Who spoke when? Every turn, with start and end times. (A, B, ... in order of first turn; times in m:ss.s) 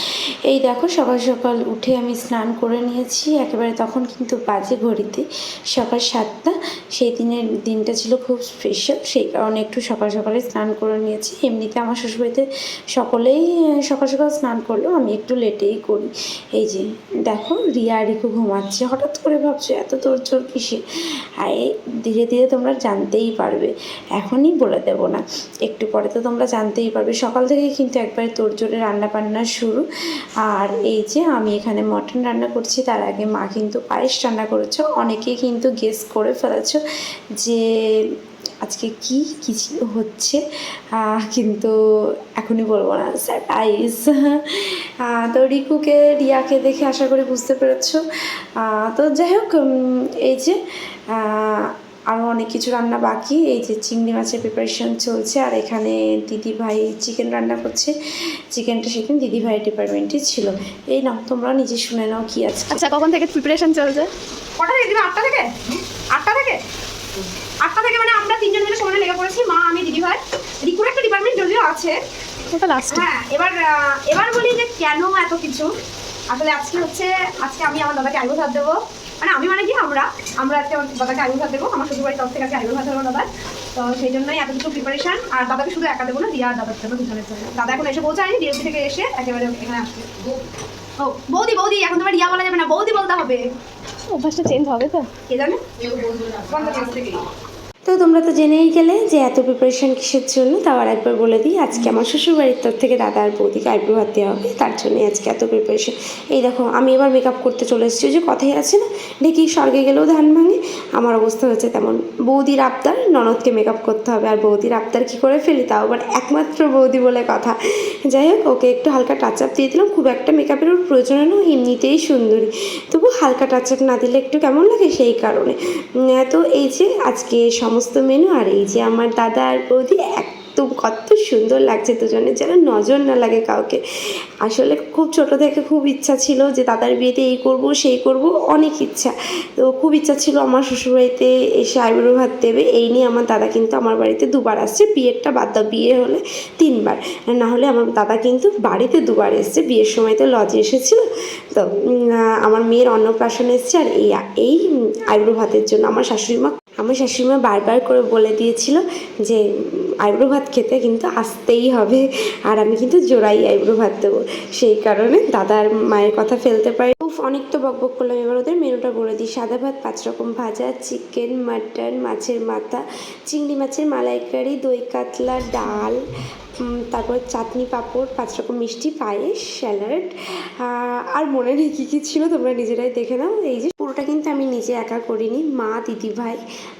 0:00.5-0:20.8 A
0:21.4-0:29.8 A
0:30.5-0:36.8 A
0:38.6-0:40.4 A
0:41.0-0:41.7 A
0:42.4-0:44.4 A
0:45.1-0:48.0 A
0:48.6-0:50.6 A
0:51.2-0:57.9 A
0:58.5-1:02.8 A
1:02.7-1:04.1 B
1:04.6-1:06.6 C
1:07.6-1:12.0 C
1:12.5-1:13.0 B
1:12.9-1:15.7 C
1:16.3-1:30.2 C
1:31.0-1:33.4 C
1:34.1-1:35.1 B
1:35.3-1:35.8 C
1:36.4-1:37.2 C
1:37.8-1:57.5 A
1:58.1-2:05.6 A
2:06.2-2:13.8 A
2:14.4-2:31.0 A
2:32.4-2:39.4 A
2:40.0-2:56.0 A
2:56.9-3:00.1 A
3:00.6-3:06.4 A